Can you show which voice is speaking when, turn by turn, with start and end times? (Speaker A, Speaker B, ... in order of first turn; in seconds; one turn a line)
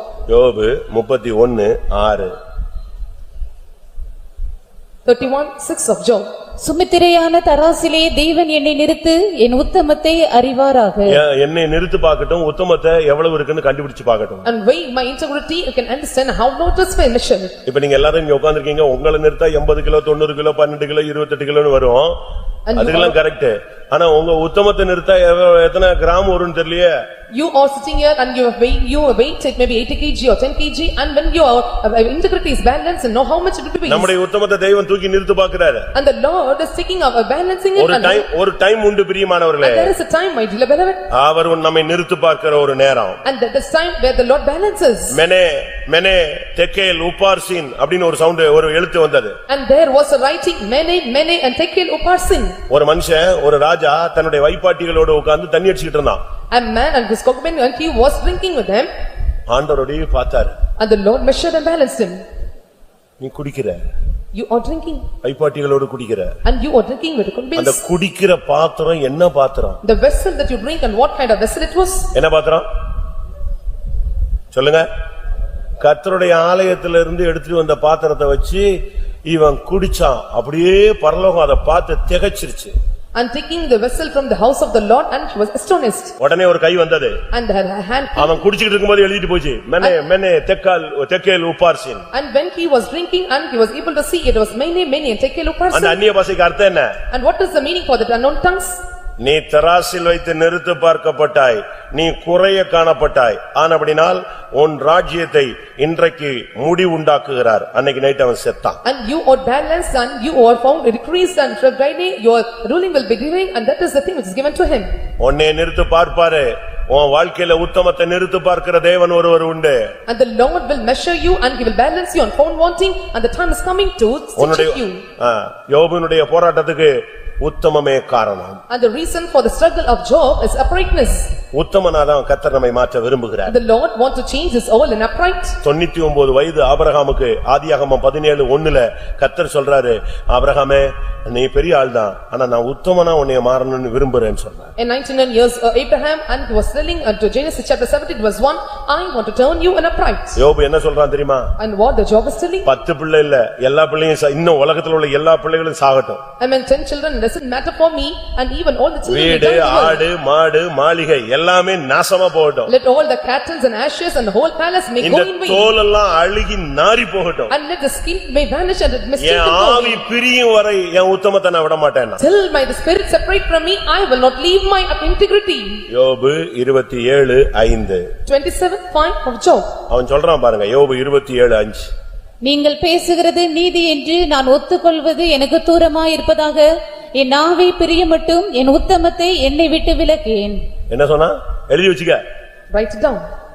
Speaker A: 0.3-2.3
Speaker B: 5.0-6.2
Speaker C: 6.6-11.2
Speaker A: 11.1-14.5
Speaker B: 14.4-17.5
Speaker A: 17.6-22.2
Speaker B: 22.7-23.2
Speaker A: 22.7-27.0
Speaker B: 27.3-34.1
Speaker A: 33.9-35.9
Speaker B: 35.9-38.3
Speaker A: 37.8-39.9
Speaker B: 39.6-41.1
Speaker A: 41.1-43.2
Speaker B: 43.2-45.2
Speaker A: 45.1-49.4
Speaker B: 49.5-52.6
Speaker A: 52.7-56.2
Speaker B: 56.5-58.9
Speaker A: 59.5-60.6
Speaker B: 60.8-62.2
Speaker A: 63.2-63.9
Speaker B: 64.3-65.1
Speaker A: 65.2-66.3
Speaker B: 66.4-67.8
Speaker A: 67.5-69.8
Speaker B: 69.8-72.1
Speaker A: 72.1-72.7
Speaker A: 74.5-74.9
Speaker A: 75.8-82.7
Speaker B: 83.1-86.1
Speaker A: 86.2-87.2
Speaker B: 87.3-88.4
Speaker A: 88.2-92.1
Speaker B: 92.1-96.0
Speaker A: 95.7-97.0
Speaker B: 97.1-98.8
Speaker A: 99.2-108.8
Speaker B: 108.8-114.9
Speaker A: 115.2-119.9
Speaker B: 120.1-125.0
Speaker A: 124.4-128.6
Speaker B: 128.7-131.3
Speaker A: 131.5-133.5
Speaker B: 133.5-135.6
Speaker A: 135.6-144.7
Speaker B: 144.8-150.4
Speaker A: 150.3-151.5
Speaker B: 151.6-152.7
Speaker A: 152.7-156.2
Speaker B: 156.4-160.0
Speaker A: 159.0-162.7
Speaker B: 162.7-165.7
Speaker A: 165.0-167.5
Speaker B: 167.5-170.0
Speaker A: 169.2-172.2
Speaker B: 172.2-175.8
Speaker A: 175.9-178.0
Speaker B: 178.2-179.7
Speaker A: 179.9-181.9
Speaker C: 182.4-190.6
Speaker A: 190.9-192.2
Speaker B: 192.7-193.2